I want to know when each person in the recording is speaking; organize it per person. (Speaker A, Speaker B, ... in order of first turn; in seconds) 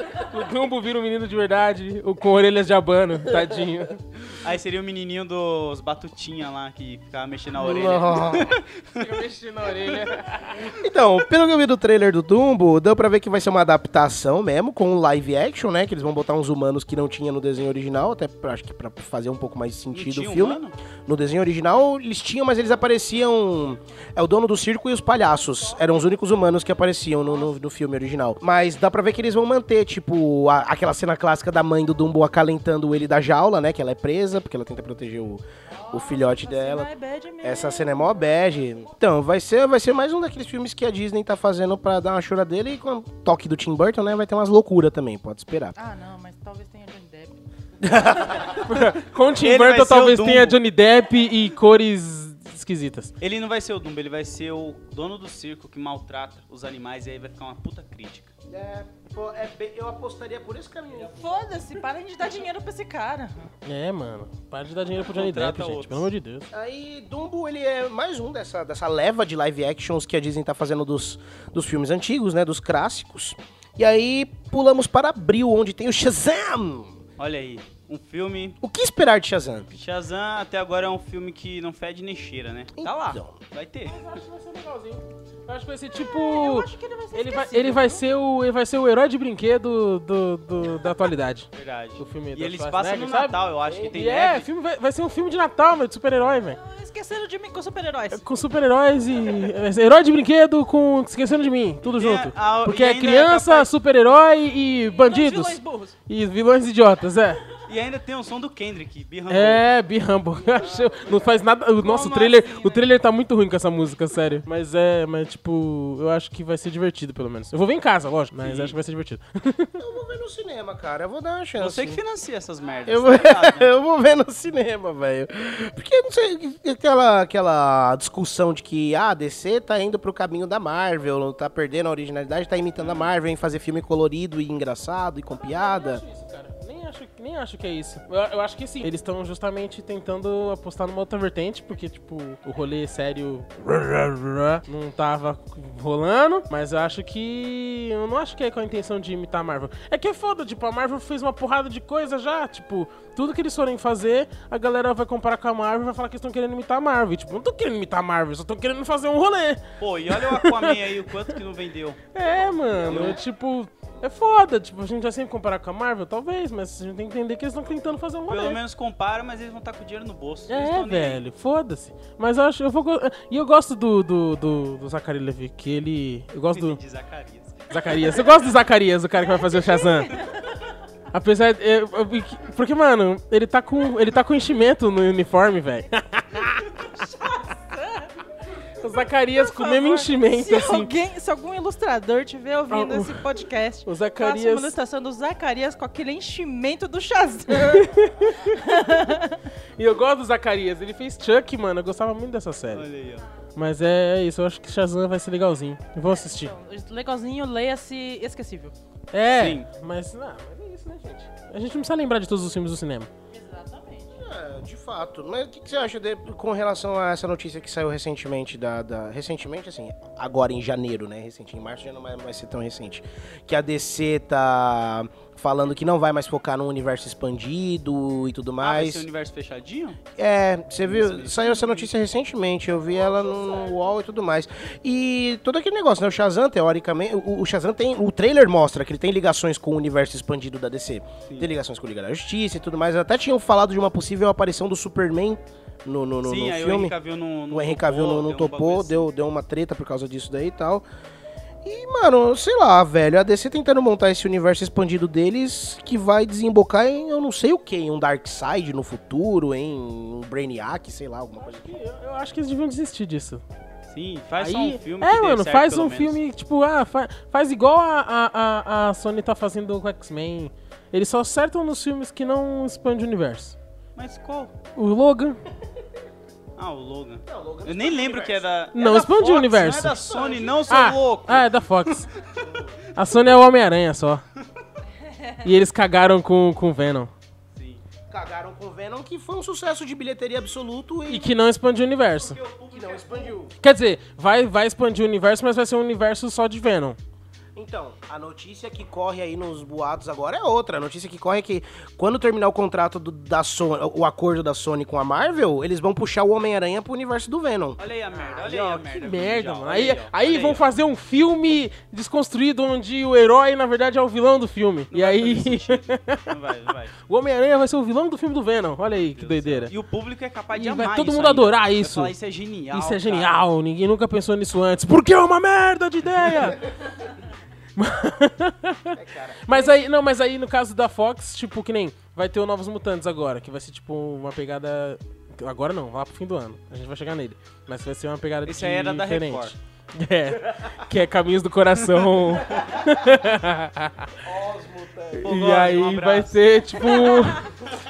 Speaker A: 0.1-4.0, 8.9-10.7, 48.6-53.1, 63.6-66.5, 83.9-96.6, 98.1-107.4, 109.3-119.8, 135.3-160.8, 162.1-168.6, 170.5-176.8, 177.7-180.1, 181.1-186.7, 188.8-190.9, 192.7-193.2, 193.8-194.7, 197.7-199.1, 199.8-202.9, 203.6-206.5, 209.1-213.1, 261.4-263.4, 264.4-273.6, 274.8-275.4, 278.7-280.0, 280.7-282.1, 283.0-284.2, 285.4-287.1, 291.1-292.4, 293.6-297.0, 309.0-316.3, 317.1-319.7, 320.5-322.1, 322.7-326.6, 327.8-344.1, 345.1-347.5
Speaker B: 3.3-3.6, 7.6-8.6, 10.6-36.9, 37.4-45.8, 47.8-48.5, 58.5-61.6, 66.5-77.0, 78.6-79.7, 82.8-83.4, 110.5-111.4, 119.8-122.0, 122.8-136.0, 162.2-163.3, 214.2-229.1, 230.2-246.9, 247.5-250.8, 251.6-261.7, 277.3-278.5, 279.9-280.7, 288.1-291.3, 292.7-293.5, 297.6-308.9, 328.9-329.8, 340.4-340.7, 344.2-345.3
Speaker C: 4.3-9.1, 19.9-20.8, 49.4-50.6, 53.2-58.3, 65.0-66.1, 77.2-78.6, 79.7-84.1, 91.5-94.5, 101.8-103.7, 107.7-109.7, 118.3-118.8, 121.6-123.7, 132.8-133.1, 159.8-162.0, 162.9-163.2, 168.3-171.2, 176.5-177.7, 202.7-203.3, 209.4-209.7, 228.6-230.0, 230.8-231.9, 246.2-249.1, 263.9-266.2, 274.0-274.5, 276.6-281.5, 282.2-282.8, 287.5-287.8, 292.2-293.4, 307.8-310.6, 314.9-316.9, 319.2-323.4, 338.5-339.6, 341.9-342.6, 345.2-347.2
Speaker D: 35.7-38.4, 45.8-47.4, 61.1-63.5, 85.9-88.0, 96.5-98.3, 104.9-106.0, 111.8-112.9, 179.3-180.5, 186.9-188.1, 189.2-197.9, 198.5-199.4, 206.1-208.7, 213.3-214.2, 285.0-285.4